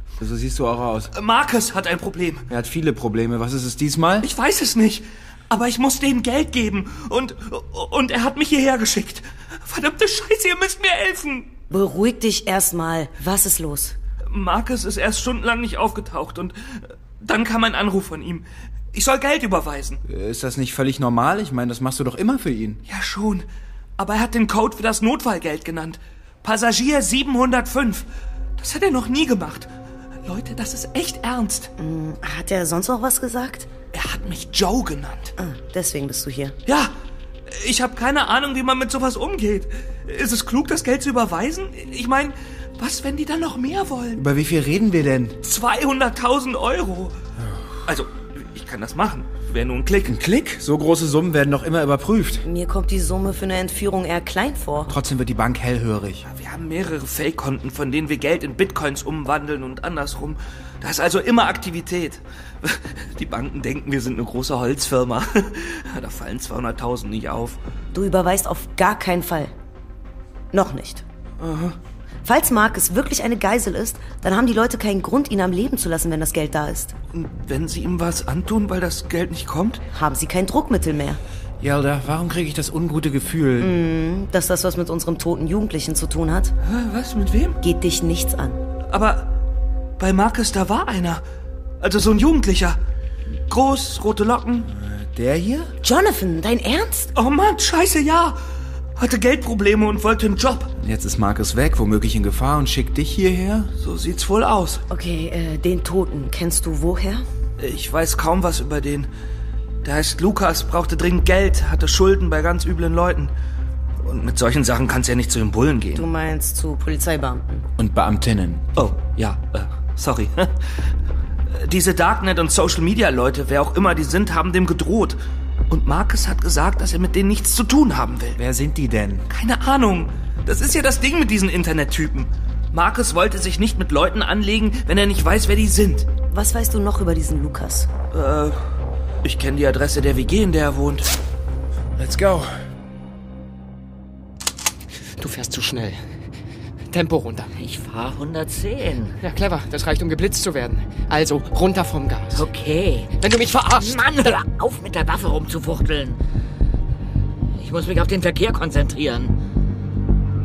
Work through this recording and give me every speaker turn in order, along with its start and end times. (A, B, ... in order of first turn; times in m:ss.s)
0:00.2-0:01.1 A
0:01.1-0:02.4 B
0:02.5-0:04.3 A
0:04.2-0:11.5 B
0:11.7-0:14.0 C
0:14.3-0:20.0 B
0:20.1-0:22.8 A
0:22.9-0:23.5 B
0:24.0-0:28.1 B
0:28.6-0:29.7 B
0:30.2-0:31.7 B
0:31.8-0:33.7 C
0:33.9-0:35.3 B
0:35.4-0:36.6 C
0:36.6-0:36.9 B
0:37.4-0:44.2 B
0:44.1-0:45.4 A
0:45.4-0:47.2 B
0:47.8-0:50.2 B
0:50.0-0:52.4 A
0:52.4-0:54.9 C
0:54.9-0:56.2 A
0:56.2-1:07.6 B
1:07.9-1:09.5 C
1:10.5-1:11.0 C
1:11.4-1:11.7 B
1:12.2-1:16.9 C
1:17.1-1:19.8 B
1:19.9-1:21.2 C
1:21.6-1:23.7 A
1:23.6-1:26.5 C
1:26.6-1:27.6 B
1:27.6-1:28.6 C
1:28.9-1:29.3 B
1:30.0-1:31.2 B
1:31.8-1:32.8 B
1:33.5-1:34.7 B
1:34.6-1:35.7 A
1:35.8-1:37.1 C
1:37.1-1:38.4 B
1:39.0-1:40.7 B
1:40.8-1:43.7 A
1:43.8-1:44.8 B
1:44.9-1:47.2 C
1:47.6-1:49.1 B
1:49.8-1:53.3 B
1:54.0-1:56.0 B
1:55.9-1:57.6 C
1:57.8-1:58.6 A
1:58.8-2:00.9 B
2:01.5-2:08.4 B
2:08.4-2:09.2 A
2:09.3-2:16.1 B
2:16.3-2:17.9 C
2:18.1-2:18.6 B
2:19.2-2:21.1 B
2:22.0-2:22.5 A
2:25.2-2:26.2 D
2:26.9-2:27.5 D
2:27.6-2:29.2 E
2:29.2-2:32.5 D
2:32.3-2:33.1 E
2:33.2-2:34.4 D
2:33.7-2:36.2 E
2:37.5-2:39.4 E